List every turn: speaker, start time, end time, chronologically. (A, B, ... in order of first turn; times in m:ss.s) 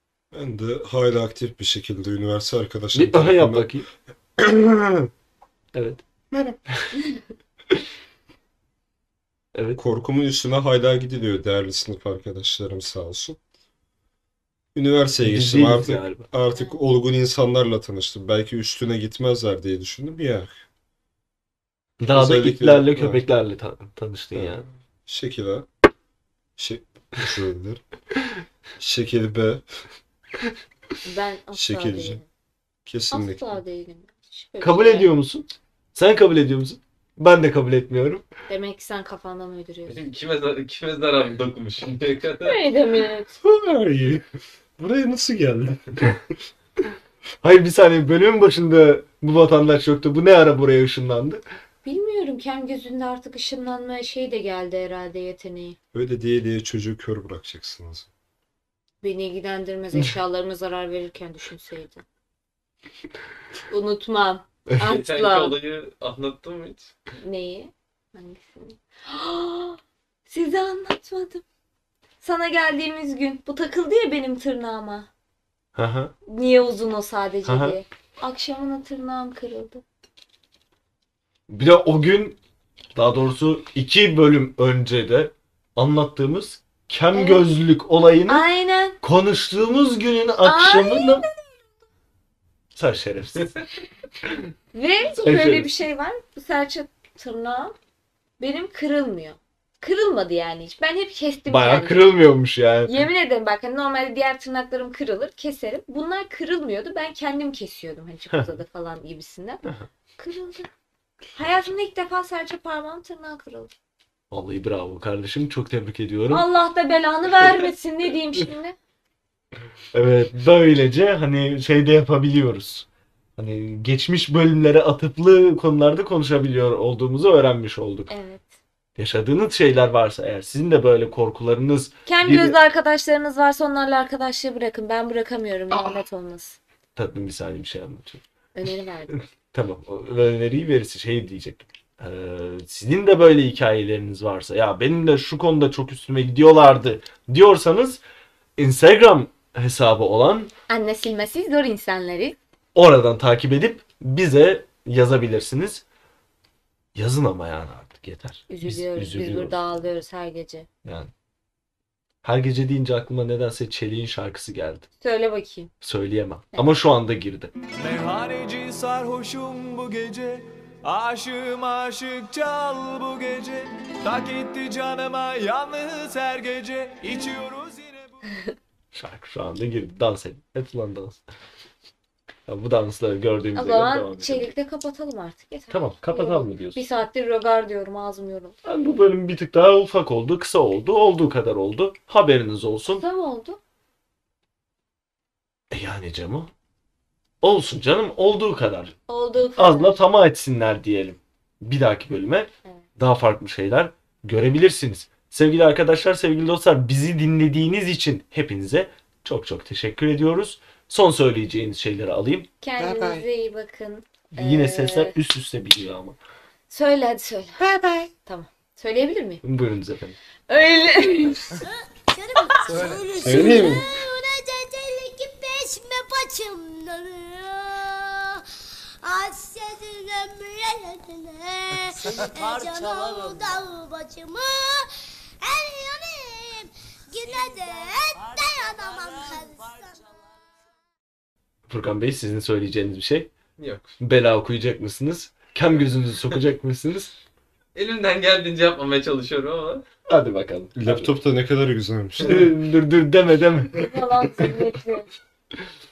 0:00.3-0:03.7 A
0:02.9-0:03.9 B
0:04.4-0:05.1 A
0:05.8-0:06.0 B
0:09.6-0:09.8 B
0:09.8-0:13.4 A
0:14.8-0:20.6 A
0:15.2-0:16.3 B
0:16.5-0:16.8 C
0:22.0-0:24.7 B
0:22.1-0:23.2 A
0:24.4-0:25.7 A
0:26.6-0:27.8 A
0:28.8-0:29.6 A
0:31.0-0:32.3 C
0:31.5-0:32.2 A
0:32.9-0:33.5 A
0:33.1-0:35.1 C
0:34.6-0:38.2 B
0:38.5-0:40.0 C
0:39.9-0:42.6 D
0:42.4-0:43.3 C
0:43.4-0:44.2 A
0:44.8-0:46.2 A
0:47.4-0:51.4 B
0:51.8-0:55.8 C
0:55.9-0:58.1 A
0:59.0-1:02.0 C
1:03.7-1:05.6 C
1:04.8-1:06.9 D
1:07.2-1:11.4 C
1:12.2-1:15.1 C
1:15.8-1:16.1 B
1:16.3-1:19.8 C
1:17.4-1:17.8 B
1:21.5-1:22.4 B
1:23.0-1:28.5 B
1:27.1-1:27.5 C
1:28.3-1:29.0 C
1:29.0-1:31.2 B
1:30.4-1:31.3 C
1:32.8-1:33.6 B
1:34.7-1:37.8 C
1:35.2-1:35.7 B
1:38.4-1:42.2 C
1:41.5-1:43.1 B
1:42.9-1:50.7 C
1:51.4-1:53.7 C
1:54.3-1:56.5 B
1:56.3-1:58.8 C
1:59.9-2:02.9 B
2:03.4-2:08.1 B
2:08.1-2:08.5 C
2:09.0-2:12.6 B
2:12.1-2:16.6 C
2:17.0-2:18.2 B
2:18.6-2:19.2 C
2:19.1-2:28.0 B
2:28.6-2:30.5 B
2:30.7-2:32.4 C
2:32.8-2:35.8 B
2:37.0-2:39.6 B
2:38.5-2:40.7 C
2:40.8-2:41.1 B
2:42.2-2:44.9 B
2:45.0-2:45.7 C
2:45.8-2:47.5 B
2:47.8-2:58.2 E
2:58.9-3:01.2 B
3:02.5-3:04.5 B
3:03.6-3:08.6 C
3:05.7-3:06.8 B
3:08.6-3:13.0 B
3:12.9-3:13.6 C
3:15.7-3:16.5 B
3:17.4-3:19.0 B
3:19.1-3:20.0 C
3:19.6-3:32.5 B
3:32.6-3:35.2 C
3:34.4-3:36.2 B
3:36.7-3:39.4 C
3:39.4-3:40.2 B
3:40.5-3:41.6 C
3:41.6-3:48.4 F
3:42.7-3:43.0 E
3:43.2-3:43.9 A
3:49.0-3:54.9 F
3:52.1-3:53.4 E
3:55.4-4:00.2 F
3:58.3-3:59.7 E
4:01.7-4:03.3 B
4:03.6-4:03.9 D
4:04.0-4:07.2 B
4:07.8-4:09.8 D
4:10.1-4:11.2 B
4:10.8-4:12.6 A
4:12.2-4:14.5 B
4:13.7-4:15.1 C